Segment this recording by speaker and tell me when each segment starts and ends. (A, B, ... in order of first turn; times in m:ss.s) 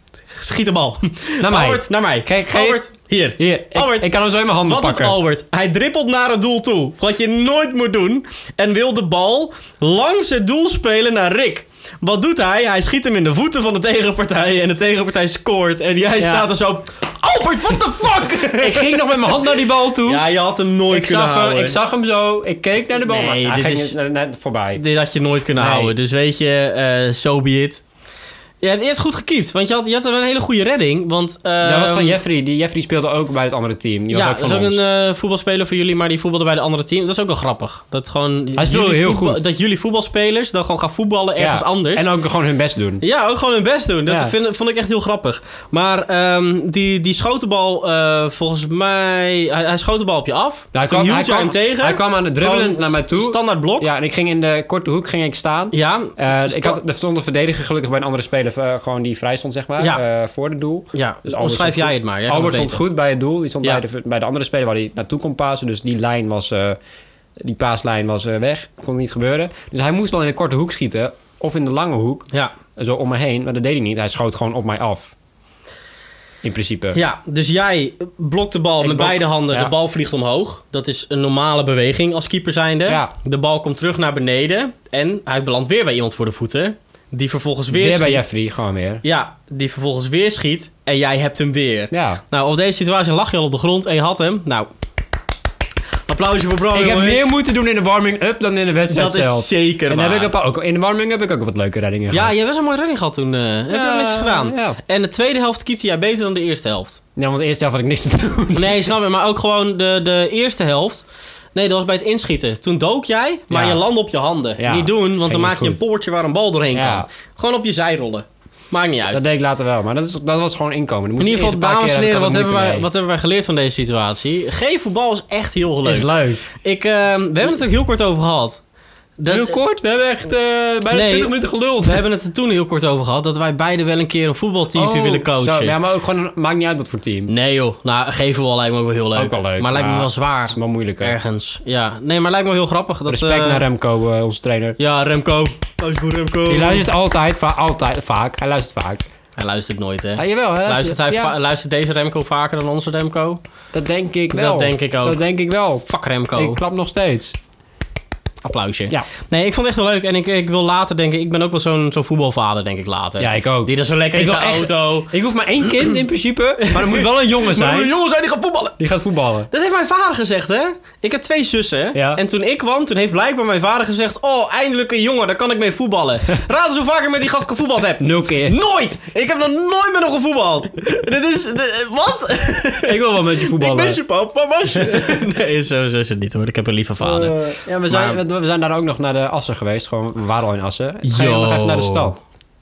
0:00.4-0:04.1 A
0:01.4-0:02.8 B
0:03.4-0:05.2 B
0:04.6-0:19.3 A
0:16.2-0:16.5 B
0:18.0-0:20.2 B
0:20.0-0:21.8 A
0:20.9-0:24.8 B
0:23.0-0:24.0 A
0:24.8-0:27.8 A
0:25.6-0:25.9 B
0:28.6-0:32.2 A
0:31.6-0:34.8 B
0:34.1-0:42.1 A
0:38.6-0:39.4 B
0:41.4-0:43.0 B
0:43.0-0:53.9 A
0:44.1-0:44.3 B
0:50.7-1:06.8 B
0:55.7-0:56.8 A
1:00.9-1:02.8 A
1:07.4-1:15.1 B
1:16.4-1:17.0 B
1:16.9-1:28.2 A
1:18.8-1:19.7 B
1:22.9-1:23.1 B
1:27.7-1:29.0 B
1:29.0-1:34.7 A
1:31.9-1:32.2 B
1:36.1-1:37.3 A
1:36.7-1:42.3 B
1:38.9-1:40.3 A
1:42.1-1:47.0 A
1:43.7-1:44.8 B
1:47.2-1:48.9 B
1:48.5-1:59.2 A
1:53.5-1:53.8 B
1:54.6-1:55.8 B
1:56.7-1:57.1 B
1:59.1-2:02.9 B
2:01.2-2:08.6 A
2:05.8-2:06.4 B
2:09.2-2:09.6 A
2:09.3-2:12.0 B
2:10.9-2:15.8 A
2:14.8-2:17.3 B
2:17.3-2:23.6 A
2:19.2-2:21.2 B
2:23.1-2:24.8 B
2:24.8-2:26.9 A
2:26.5-2:29.0 B
2:29.4-2:33.4 A
2:30.2-2:31.4 B
2:33.7-2:37.3 B
2:34.3-2:35.2 A
2:35.8-2:36.6 A
2:38.4-2:46.0 A
2:43.2-2:47.9 B
2:46.6-2:48.8 A
2:48.8-2:49.5 B
2:49.5-3:07.4 A
2:51.9-2:52.2 B
2:58.0-2:58.6 B
3:02.8-3:04.0 B
3:04.8-3:05.2 B
3:07.0-3:12.2 B
3:07.9-3:08.2 A
3:11.0-3:12.2 A